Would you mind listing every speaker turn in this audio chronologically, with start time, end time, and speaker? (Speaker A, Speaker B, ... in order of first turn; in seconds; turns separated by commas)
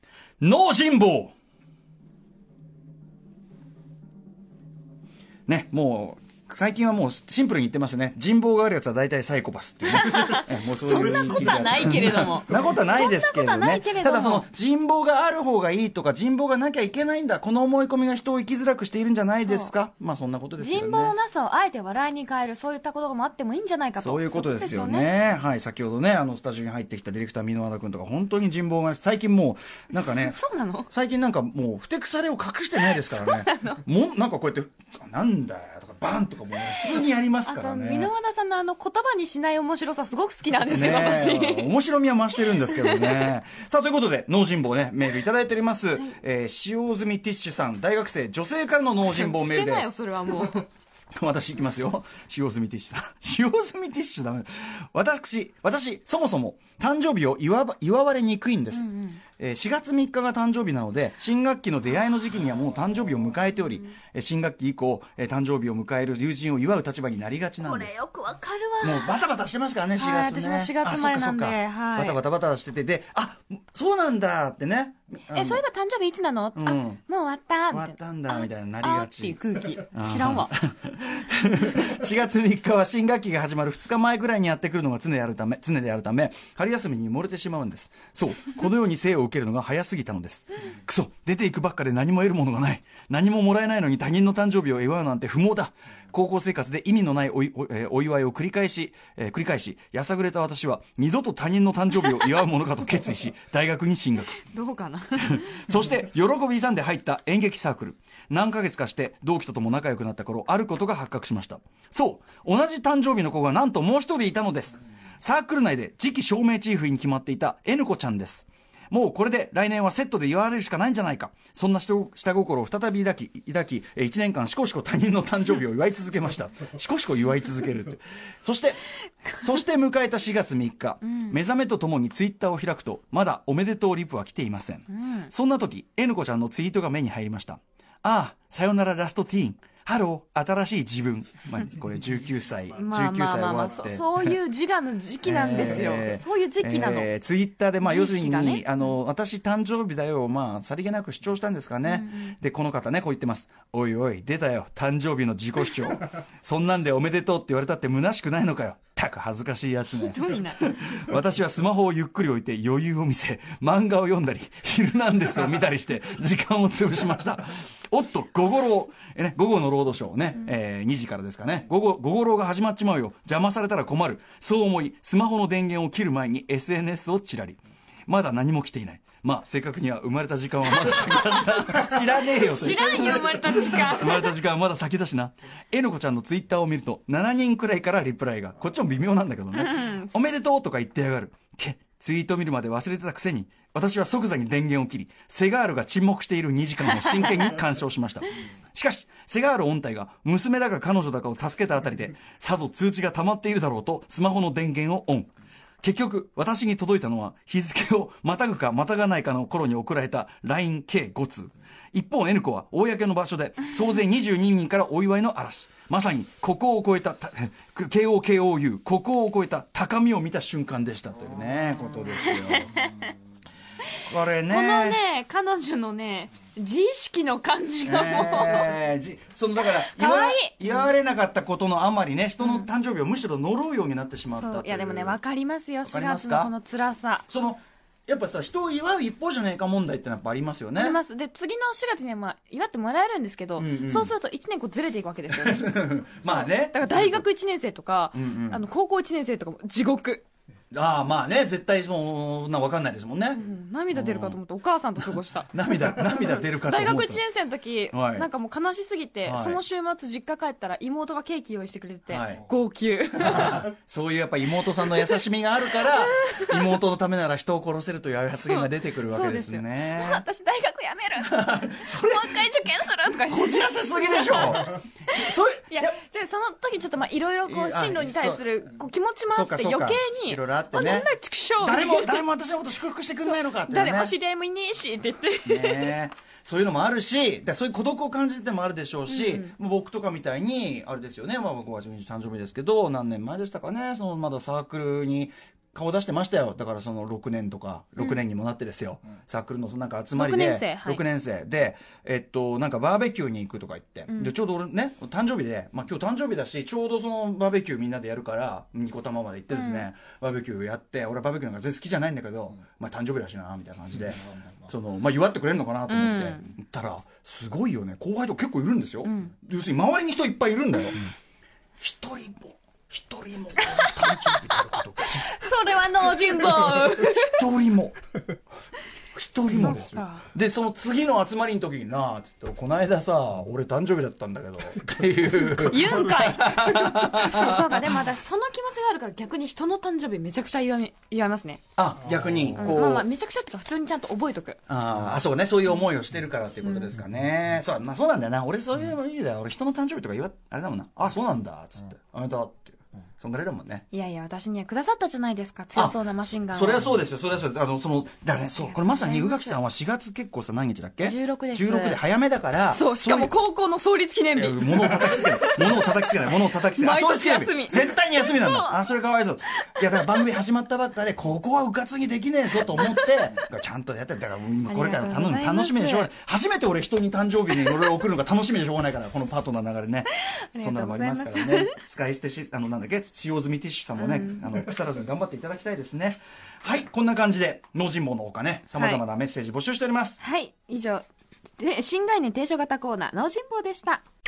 Speaker A: 0.4-1.3, Speaker A: 5.5-21.1, Speaker B: 9.9-14.5, Speaker B: 19.4-19.7, Speaker B: 20.6-25.1, Speaker A: 24.0-30.4, Speaker B: 30.0-30.9, Speaker A: 30.9-38.1, Speaker B: 32.8-33.8, Speaker B: 36.8-41.7, Speaker A: 40.7-50.0, Speaker B: 42.5-43.3, Speaker B: 49.0-50.7, Speaker A: 51.1-68.0, Speaker B: 58.7-59.2, Speaker B: 67.6-69.2, Speaker A: 68.8-75.6, Speaker B: 70.0-72.2, Speaker B: 75.3-80.5, Speaker A: 76.5-77.0, Speaker A: 77.7-79.4, Speaker A: 79.9-104.4, Speaker B: 104.3-105.6, Speaker A: 105.2-128.8, Speaker A: 129.3-144.3, Speaker B: 134.9-135.3, Speaker B: 142.8-147.1, Speaker A: 145.2-205.3, Speaker B: 147.8-148.7, Speaker B: 151.8-152.3, Speaker B: 159.9-160.6, Speaker B: 182.2-184.3, Speaker B: 189.5-190.2, Speaker B: 196.9-197.5, Speaker A: 205.8-222.8, Speaker B: 222.2-223.1, Speaker A: 224.1-225.0, Speaker B: 224.5-228.7, Speaker A: 227.8-235.2, Speaker B: 229.6-230.8, Speaker B: 234.3-237.3, Speaker A: 235.8-236.5, Speaker A: 237.3-241.0, Speaker B: 240.8-250.2, Speaker A: 243.6-244.1, Speaker A: 245.3-247.2, Speaker A: 248.1-248.6, Speaker A: 250.7-254.4, Speaker B: 253.3-263.7, Speaker A: 255.5-257.2, Speaker A: 257.9-258.3, Speaker A: 259.2-259.6, Speaker A: 262.1-262.4, Speaker A: 263.2-270.2, Speaker B: 264.8-265.2, Speaker B: 265.8-266.5, Speaker B: 268.4-282.2, Speaker A: 271.2-272.4, Speaker A: 273.2-276.0, Speaker A: 277.4-278.4, Speaker A: 279.3-281.1, Speaker A: 281.6-284.1, Speaker B: 283.3-285.9, Speaker A: 285.4-321.0, Speaker B: 289.1-289.5, Speaker B: 300.1-301.0, Speaker B: 304.1-304.3, Speaker B: 309.5-309.9, Speaker B: 315.9-316.5, Speaker B: 319.0-319.3, Speaker A: 321.8-325.3, Speaker B: 323.7-327.4, Speaker A: 326.4-328.0, Speaker A: 329.1-338.0, Speaker B: 329.5-330.2, Speaker B: 335.3-341.6, Speaker A: 341.8-343.1, Speaker B: 342.5-344.6, Speaker A: 344.7-353.8, Speaker B: 353.9-356.9, Speaker A: 355.7-363.3, Speaker B: 358.6-359.6, Speaker B: 361.0-362.0, Speaker B: 362.7-368.8, Speaker A: 364.3-390.2, Speaker B: 369.6-370.0, Speaker B: 374.6-376.1, Speaker B: 380.2-381.8, Speaker B: 383.9-384.5, Speaker B: 388.7-389.0, Speaker B: 390.2-391.1, Speaker B: 391.6-394.0